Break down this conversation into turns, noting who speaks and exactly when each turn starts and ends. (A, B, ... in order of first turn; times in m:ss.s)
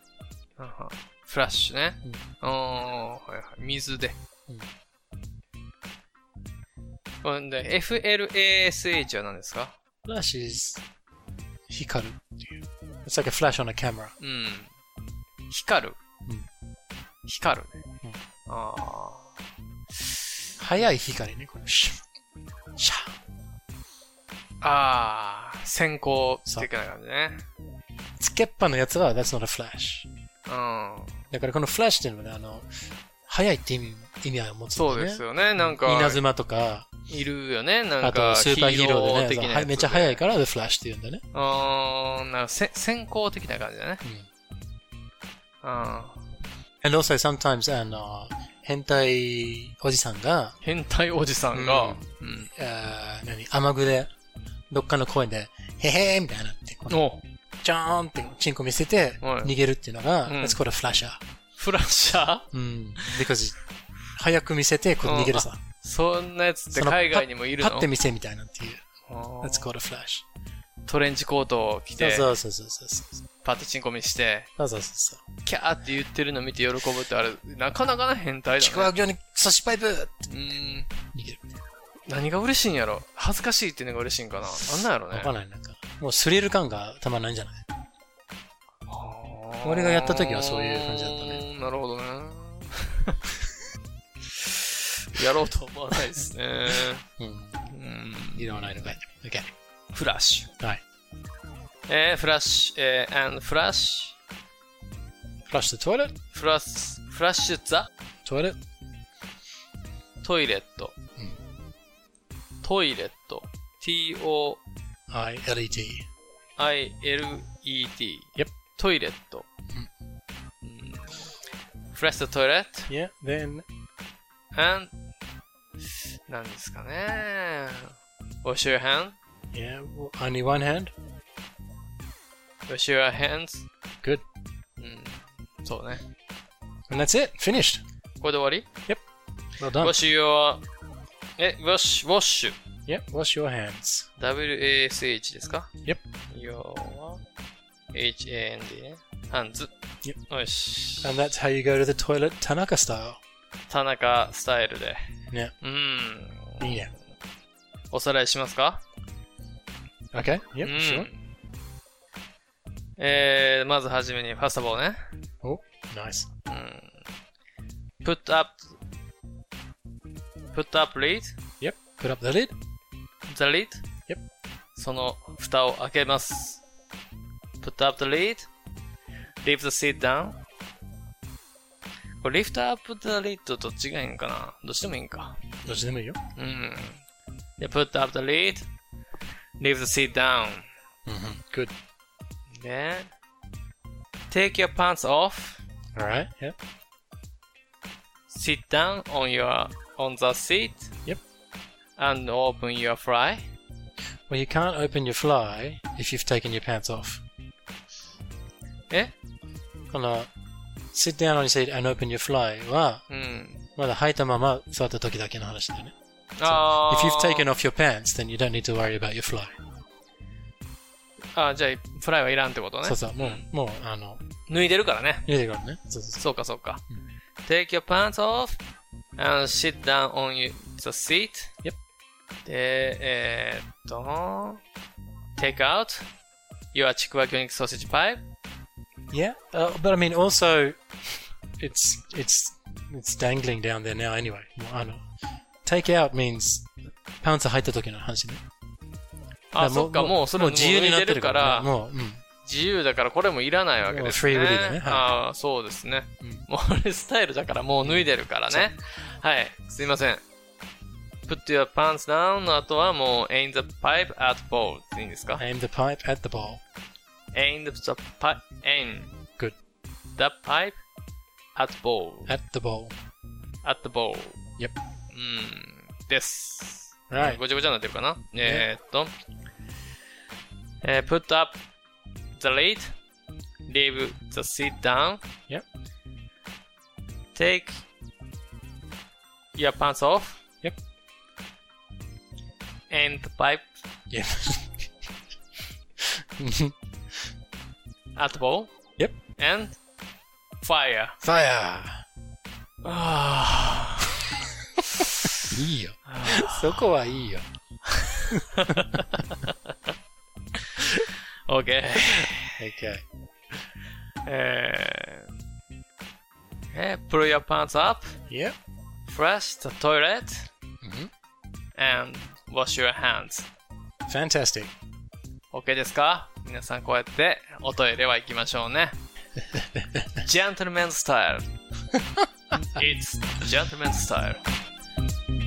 0:00.6-0:04.2 A
0:07.2-0:09.7 A
0:10.0-0:10.8 B
0:11.7-0:14.1 B
0:14.2-0:14.7 A
0:15.5-0:16.0 A
0:17.2-0:17.8 A
0:18.5-0:19.3 A
0:20.6-0:22.0 B
0:22.8-0:23.1 B
0:24.6-0:27.4 A
0:28.2-0:30.1 B
0:30.5-0:31.2 A
0:31.3-0:32.7 B
0:33.2-0:36.9 B
0:34.7-0:36.2 A
0:37.1-0:40.2 A
0:38.0-0:41.2 B
0:41.3-0:44.0 A
0:45.6-0:46.2 A
0:46.8-0:50.6 B
0:50.6-0:52.5 A
0:51.5-0:54.1 B
0:54.7-0:57.0 B
0:56.9-0:57.2 A
0:57.6-1:01.2 B
0:59.2-0:59.5 A
1:00.3-1:00.6 A
1:01.6-1:02.5 A
1:02.5-1:03.6 B
1:04.1-1:05.6 B
1:05.0-1:07.9 A
1:06.7-1:08.8 B
1:09.1-1:09.7 A
1:09.4-1:10.2 B
1:10.8-1:12.3 A
1:12.0-1:13.2 B
1:13.4-1:14.5 A
1:14.6-1:15.2 B
1:15.4-1:18.9 A
1:18.6-1:20.3 B
1:20.3-1:20.9 A
1:21.1-1:21.4 B
1:22.0-1:25.3 A
1:24.5-1:27.6 B
1:28.9-1:33.2 A
1:29.6-1:31.4 B
1:34.2-1:37.0 A
1:37.2-1:37.7 B
1:37.7-1:38.8 A
1:38.3-1:39.5 B
1:39.9-1:40.5 A
1:41.9-1:44.2 A
1:45.5-1:46.1 B
1:46.3-1:47.9 A
1:48.2-1:48.6 B
1:50.2-1:50.9 A
1:52.6-1:54.6 A
1:55.1-1:56.1 B
1:56.6-1:59.4 A
2:00.6-2:01.3 A
2:01.9-2:02.9 A
2:02.9-2:03.6 B
2:04.5-2:04.9 A
2:06.3-2:09.2 A
2:09.5-2:10.9 B
2:12.7-2:13.6 A
2:14.8-2:16.0 A
2:16.9-2:17.8 B
2:18.2-2:18.7 A
2:19.6-2:20.0 B
2:19.8-2:20.6 A
2:21.4-2:22.6 A
2:22.9-2:24.1 B
2:24.2-2:25.7 A
2:26.3-2:27.2 A
2:27.9-2:29.7 A
2:30.2-2:31.1 A
2:31.0-2:33.2 B
2:33.7-2:35.0 A
2:35.6-2:36.8 A
2:36.6-2:36.9 B
2:37.9-2:38.8 A
2:40.1-2:41.1 B
2:40.6-2:41.2 A
2:43.0-2:45.0 A
2:45.4-2:46.3 B
2:46.5-2:47.0 A
2:48.0-2:48.7 A
2:50.5-2:51.4 A
2:51.6-2:52.5 B
2:53.3-2:53.8 A
2:54.8-2:56.6 A
2:57.6-2:58.5 A
2:59.4-3:00.4 A
3:02.2-3:05.5 A
3:05.6-3:06.2 B
3:06.4-3:07.0 A
3:07.6-3:08.7 A
3:09.6-3:10.6 A
3:11.0-3:11.7 B
3:12.5-3:13.1 A
3:14.3-3:15.6 A
3:15.9-3:16.6 B
3:18.3-3:20.9 A
3:22.0-3:23.5 A
3:24.3-3:27.2 B
3:29.9-3:30.3 B
3:30.9-3:33.0 B
3:33.1-3:33.6 A
3:33.8-3:39.6 B
3:36.4-3:37.5 A
3:41.3-3:43.4 A
3:42.8-3:44.2 B
3:44.5-3:45.3 A
3:45.2-3:46.2 B
3:46.2-3:46.8 A
3:47.4-3:48.6 A
3:49.2-3:51.6 A
3:52.4-3:54.6 A
3:55.4-3:56.1 A
3:56.7-3:58.2 A
3:59.1-4:00.8 B
4:01.6-4:05.0 B
4:05.6-4:08.4 B
4:09.5-4:11.7 A
4:09.6-4:12.2 B
4:12.4-4:20.2 A
4:13.9-4:15.1 B
4:17.8-4:18.7 B
4:21.2-4:25.4 A
4:25.4-4:26.6 B
4:27.3-4:29.1 A
4:30.1-4:30.8 A
4:31.5-4:32.3 A
4:32.2-4:32.9 B
4:33.6-4:34.4 A
4:35.1-4:39.1 A
4:37.1-4:37.4 B
4:38.4-4:38.7 B
4:40.8-4:41.6 A
4:42.4-4:42.9 A
4:43.6-4:45.2 A
4:47.3-4:47.8 A
4:49.5-4:50.4 A
4:52.9-4:53.8 A
4:54.1-4:54.8 B
4:56.2-4:56.7 B
4:58.1-4:58.7 A
4:59.3-4:59.8 A
5:00.6-5:01.2 A
5:01.2-5:02.0 B
5:02.8-5:04.1 A
5:05.0-5:05.4 A
5:05.4-5:07.4 B
5:06.1-5:06.9 A
5:07.9-5:09.7 A
5:10.7-5:12.6 A
5:12.6-5:13.0 B
5:14.2-5:15.3 A
5:16.7-5:18.2 A
5:18.3-5:18.6 B
5:19.1-5:20.5 A
5:20.8-5:21.1 B
5:21.8-5:23.5 A
5:24.1-5:24.7 B
5:25.5-5:29.0 A
5:29.5-5:30.0 B
5:30.2-5:31.5 A
5:31.9-5:32.3 B
5:32.8-5:34.4 A